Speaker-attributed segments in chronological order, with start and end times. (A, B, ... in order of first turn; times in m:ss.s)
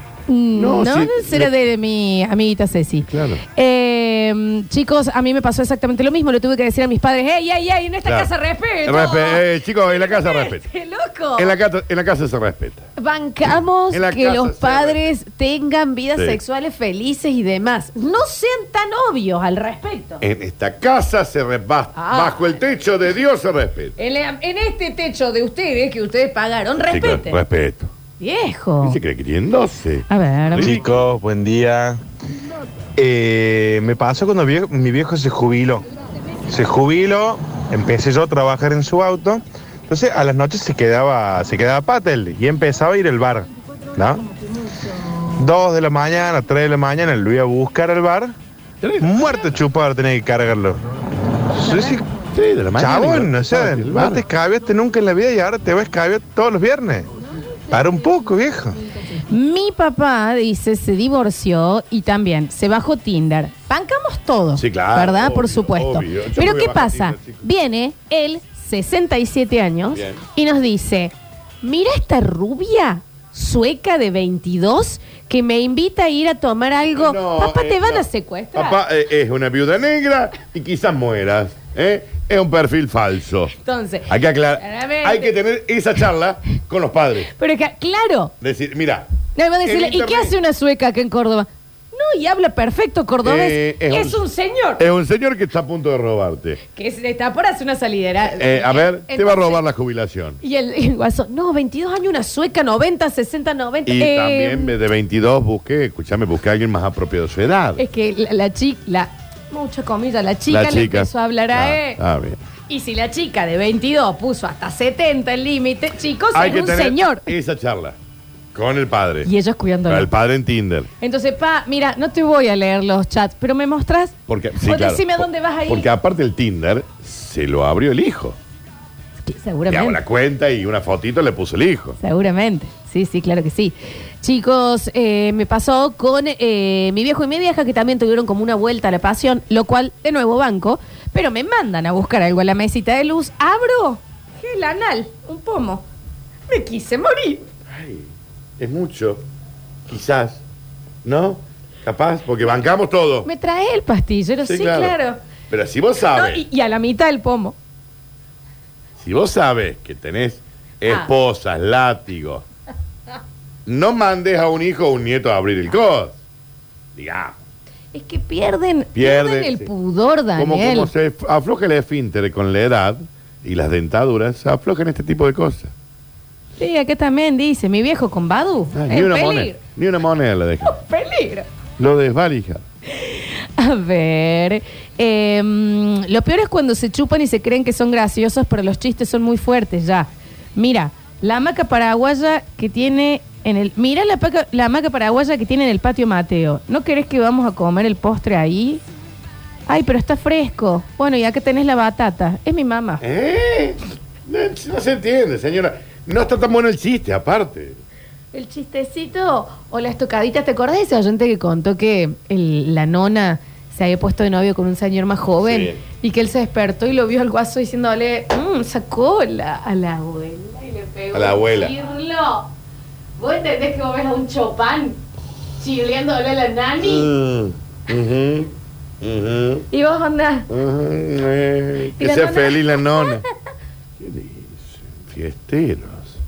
0:00.3-0:11.5 A
0:00.5-0:01.5 B
0:03.1-0:03.4 B
0:08.0-0:08.3 B
0:08.8-0:10.6 B
0:11.4-0:12.9 B
0:13.0-0:20.2 A
0:13.9-0:15.0 B
0:20.2-0:23.9 B
0:21.9-0:22.6 A
0:24.0-0:27.4 A
0:26.9-0:27.9 B
0:28.2-0:29.0 A
0:28.8-0:30.9 B
0:30.1-0:30.8 A
0:30.6-0:32.0 C
0:33.0-0:35.8 C
0:36.5-0:44.3 C
0:45.4-0:48.3 C
0:48.8-0:49.6 B
0:49.0-0:50.8 C
0:51.5-0:52.0 C
0:52.3-0:54.2 B
0:52.8-0:57.1 C
0:57.7-0:58.8 C
0:59.3-1:18.8 A
1:04.5-1:07.4 B
1:09.9-1:10.2 B
1:16.9-1:23.5 B
1:23.6-1:25.3 A
1:24.1-1:27.3 B
1:27.3-1:28.3 A
1:28.4-1:29.1 B
1:29.4-1:34.8 A
1:29.6-1:30.3 B
1:33.2-1:34.2 B
1:34.8-1:36.6 B
1:36.7-1:39.6 A
1:38.3-1:40.4 B
1:40.4-1:44.7 A
1:43.8-1:47.8 B
1:47.8-1:52.0 A
1:50.5-1:52.4 B
1:52.7-1:57.3 A
1:56.3-1:58.0 B
1:58.5-1:59.3 B
1:59.2-2:00.1 A
1:59.9-2:00.9 B
2:01.0-2:05.9 A
2:04.3-2:08.4 B
2:09.2-2:10.0 A
2:09.7-2:12.0 B
2:12.0-2:25.8 A
2:26.5-2:27.4 A
2:27.7-2:29.2 B
2:29.9-2:30.4 B
2:31.0-2:33.3 B
2:33.2-2:35.2 A
2:34.4-2:35.0 B
2:35.5-2:36.4 B
2:36.1-2:37.5 A
2:39.0-2:42.4 B
2:40.8-2:41.1 A
2:43.6-2:46.2 B
2:46.9-2:47.4 B
2:47.9-2:50.9 A
2:48.9-2:49.7 B
2:50.4-2:55.7 B
2:56.6-2:59.6 A
2:58.7-3:00.8 B
3:00.6-3:01.4 A
3:01.8-3:02.6 B
3:02.9-3:18.8 A
3:19.7-3:23.0 A
3:23.0-3:27.8 B
3:28.3-3:42.5 A
3:35.4-3:35.8 B
3:41.1-3:41.7 B
3:43.2-3:45.0 A
3:45.6-3:47.1 A
3:46.8-3:49.7 B
3:49.7-3:50.5 A
3:50.5-3:53.2 B
3:52.0-3:53.2 A
3:54.0-3:56.2 B